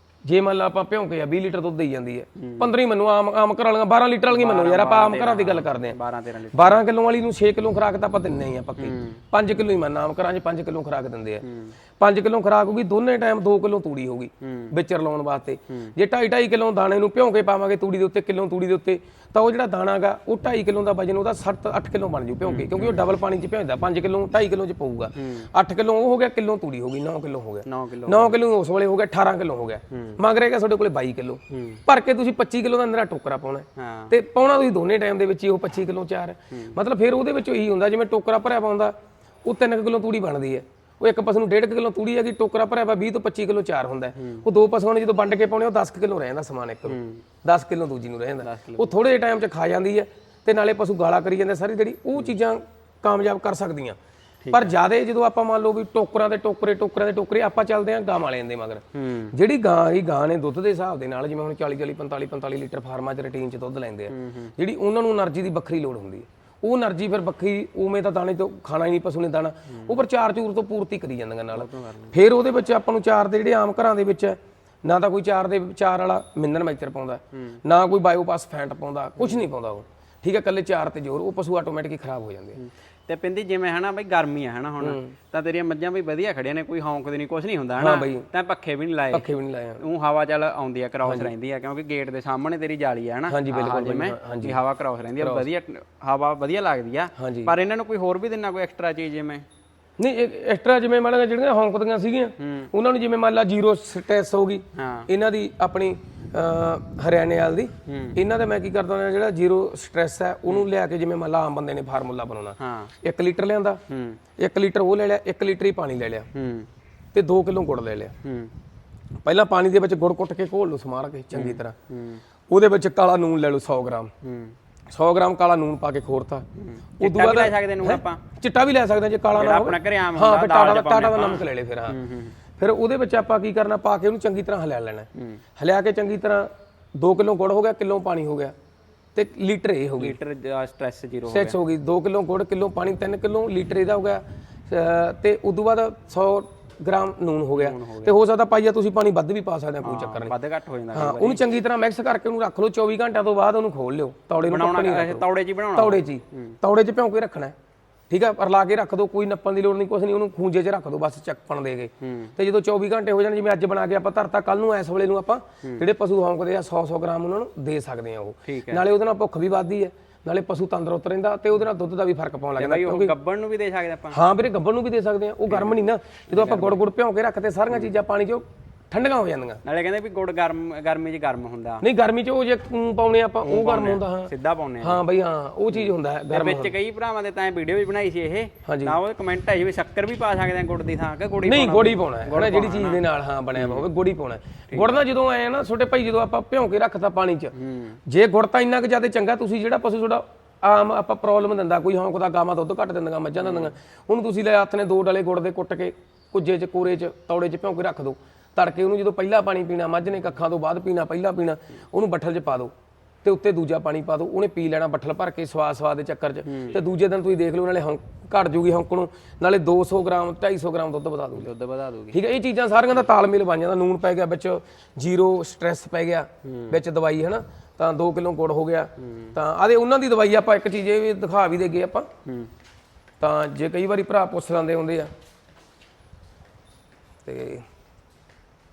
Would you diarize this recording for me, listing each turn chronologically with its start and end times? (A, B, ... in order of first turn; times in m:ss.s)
0:00.3-0:06.0 A
0:02.4-0:02.7 B
0:04.3-0:06.8 B
0:06.5-0:11.4 A
0:08.8-0:09.2 B
0:11.4-0:11.7 B
0:12.0-0:38.9 A
0:14.4-0:14.7 B
0:22.4-0:23.0 B
0:25.2-0:25.5 B
0:27.6-0:28.4 B
0:29.9-0:30.2 B
0:31.5-0:31.8 B
0:33.8-0:34.1 B
0:39.4-0:54.0 A
0:44.2-0:44.5 B
0:46.9-0:47.2 B
0:48.4-0:48.9 B
0:54.4-0:54.7 B
0:54.5-1:22.6 A
0:58.9-0:59.3 B
1:04.1-1:04.5 B
1:09.7-1:10.0 B
1:11.5-1:12.2 B
1:17.3-1:17.6 B
1:22.6-1:39.5 B
1:24.8-1:25.2 A
1:27.8-1:28.3 A
1:29.1-1:29.8 A
1:31.0-1:31.3 A
1:33.3-1:34.6 A
1:35.2-1:35.5 A
1:37.2-1:37.5 A
1:40.0-1:53.8 A
1:42.4-1:42.7 B
1:44.8-1:45.1 B
1:47.8-1:48.2 B
1:52.6-1:52.9 B
1:53.9-1:54.2 B
1:54.4-1:56.3 A
1:56.3-1:56.7 B
1:57.1-1:58.1 A
1:58.2-1:58.5 B
1:59.2-2:01.8 A
2:01.3-2:02.2 B
2:02.5-2:04.1 A
2:04.2-2:04.6 B
2:04.9-2:06.5 A
2:06.6-2:08.2 B
2:07.0-2:12.0 A
2:09.3-2:12.4 B
2:12.6-2:18.5 A
2:15.2-2:15.4 B
2:19.2-2:20.2 A
2:20.0-2:21.6 B
2:21.3-2:30.3 A
2:27.6-2:28.2 B
2:29.8-2:31.5 B
2:30.9-2:37.6 A
2:34.4-2:36.6 B
2:38.1-2:53.1 A
2:42.0-2:42.3 B
2:48.4-2:48.8 B
2:52.6-2:54.2 B
2:54.1-2:59.6 A
2:55.5-2:55.8 B
2:56.3-2:56.8 B
2:59.6-3:01.8 B
3:01.8-3:06.7 A
3:03.4-3:05.0 B
3:05.7-3:13.0 B
3:08.7-3:09.0 A
3:11.4-3:17.5 A
3:13.6-3:13.9 B
3:14.7-3:15.0 B
3:17.5-3:18.0 B
3:18.1-3:32.7 A
3:23.4-3:23.7 B
3:33.2-3:41.5 A
3:36.4-3:36.8 B
3:41.4-3:42.2 B
3:42.1-3:52.1 A
3:46.4-3:46.8 B
3:49.0-3:49.4 B
3:52.2-3:52.5 B
3:53.2-3:55.1 A
3:57.2-3:57.7 A